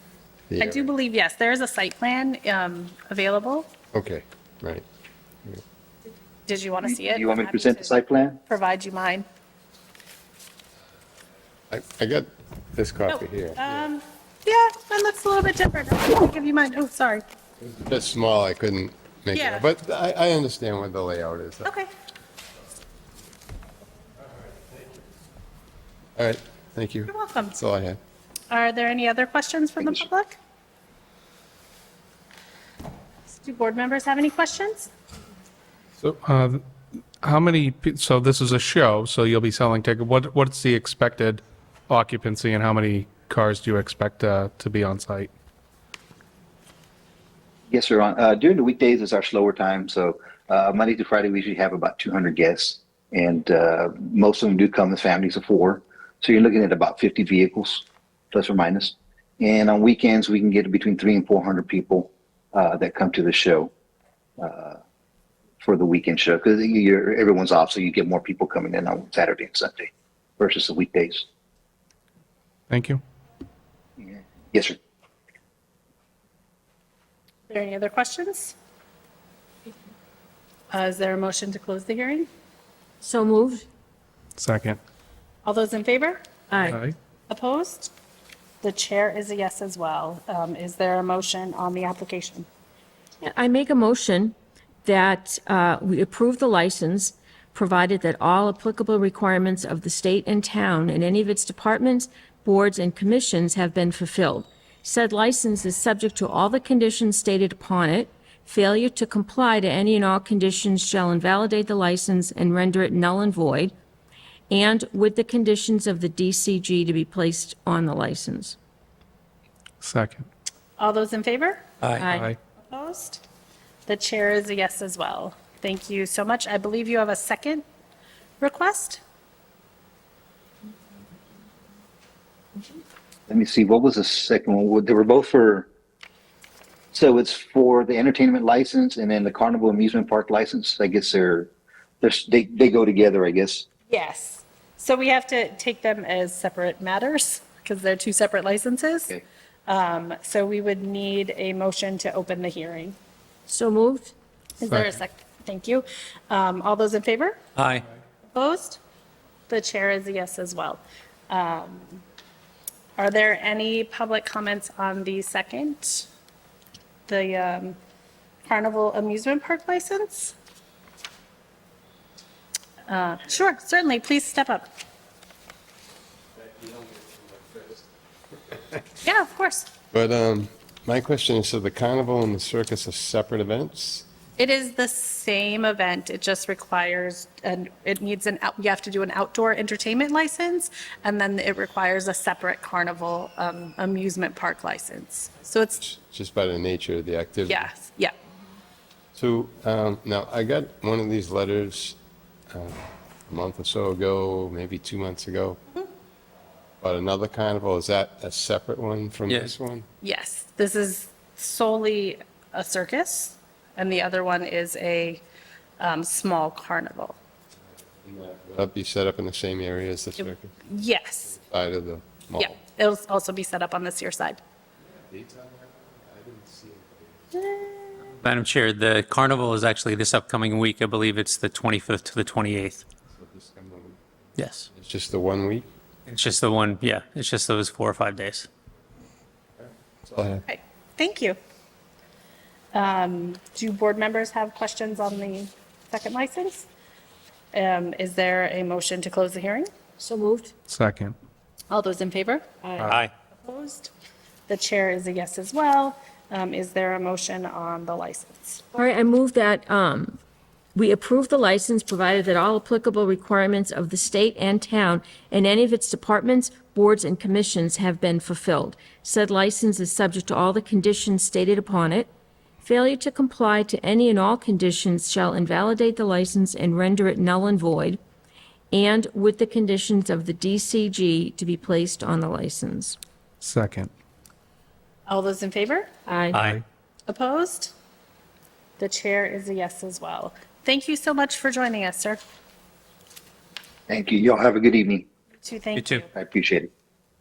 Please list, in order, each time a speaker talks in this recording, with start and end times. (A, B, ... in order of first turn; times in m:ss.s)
0:00.5-0:00.9 A
0:00.6-0:03.7 B
0:03.9-0:04.8 A
0:06.4-0:07.9 B
0:06.8-0:08.4 C
0:08.4-0:09.2 B
0:11.7-0:13.8 A
0:13.1-0:17.2 B
0:17.6-0:21.7 A
0:19.3-0:19.6 B
0:21.6-0:21.9 B
0:26.2-0:28.0 A
0:27.1-0:27.6 B
0:28.5-0:30.4 B
0:33.3-0:34.9 B
0:36.2-0:36.6 D
0:37.2-0:45.3 D
0:47.7-1:03.7 C
1:04.4-1:04.8 C
1:05.6-1:11.2 C
1:12.7-1:13.0 D
1:14.0-1:14.8 C
1:17.5-1:18.5 B
1:20.7-1:22.3 B
1:23.0-1:23.6 E
1:24.4-1:24.8 D
1:25.4-1:26.2 B
1:26.5-1:26.8 E
1:26.6-1:26.9 D
1:27.3-1:27.9 B
1:28.6-1:32.4 B
1:33.2-1:53.7 E
1:54.5-1:58.6 E
1:59.8-2:00.2 D
2:00.8-2:01.6 B
2:01.8-2:02.1 F
2:02.0-2:02.3 E
2:02.1-2:02.4 D
2:02.6-2:03.2 B
2:03.9-2:07.6 B
2:08.4-2:09.0 B
2:13.3-2:15.7 C
2:16.9-2:21.5 C
2:22.0-2:23.6 C
2:23.9-2:29.2 B
2:29.7-2:33.0 B
2:33.5-2:34.1 E
2:34.6-2:37.4 B
2:37.6-2:37.8 F
2:38.3-2:38.8 B
2:39.5-2:42.0 B
2:43.0-2:46.1 B
2:47.1-2:47.8 B
2:48.4-2:50.3 B
2:52.9-2:54.7 B
2:56.4-2:57.8 A
2:59.0-2:59.7 B
2:59.9-3:04.0 A
3:04.4-3:15.8 B
3:15.8-3:17.7 A
3:17.5-3:18.1 B
3:19.1-3:22.0 A
3:22.5-3:25.6 A
3:26.8-3:29.8 A
3:29.3-3:29.5 F
3:30.0-3:35.2 B
3:35.8-3:37.2 B
3:38.0-3:40.5 A
3:40.7-3:41.3 B
3:41.3-3:42.6 A
3:42.4-3:44.4 B
3:44.9-3:47.5 A
3:48.2-3:52.8 F
3:53.1-3:54.0 A
3:54.4-3:54.7 F
3:54.7-3:55.7 A
3:56.1-3:58.5 F
3:59.6-4:00.4 A
4:00.5-4:01.4 B
4:02.7-4:06.7 B
4:07.5-4:09.7 B
4:10.0-4:10.5 E
4:10.7-4:11.2 D
4:11.7-4:12.4 B
4:12.6-4:12.9 E
4:12.8-4:13.1 F
4:13.4-4:13.9 B
4:14.5-4:18.6 B
4:18.7-4:20.2 E
4:20.7-4:32.1 E
4:32.6-4:38.0 E
4:38.7-4:43.0 E
4:43.4-4:43.9 D
4:45.1-4:45.9 B
4:46.1-4:46.5 E
4:46.3-4:46.6 F
4:47.1-4:47.7 B
4:48.8-4:52.2 B
4:53.9-4:55.0 C
4:55.4-4:56.1 B
4:55.7-4:56.1 F
4:56.1-4:56.7 C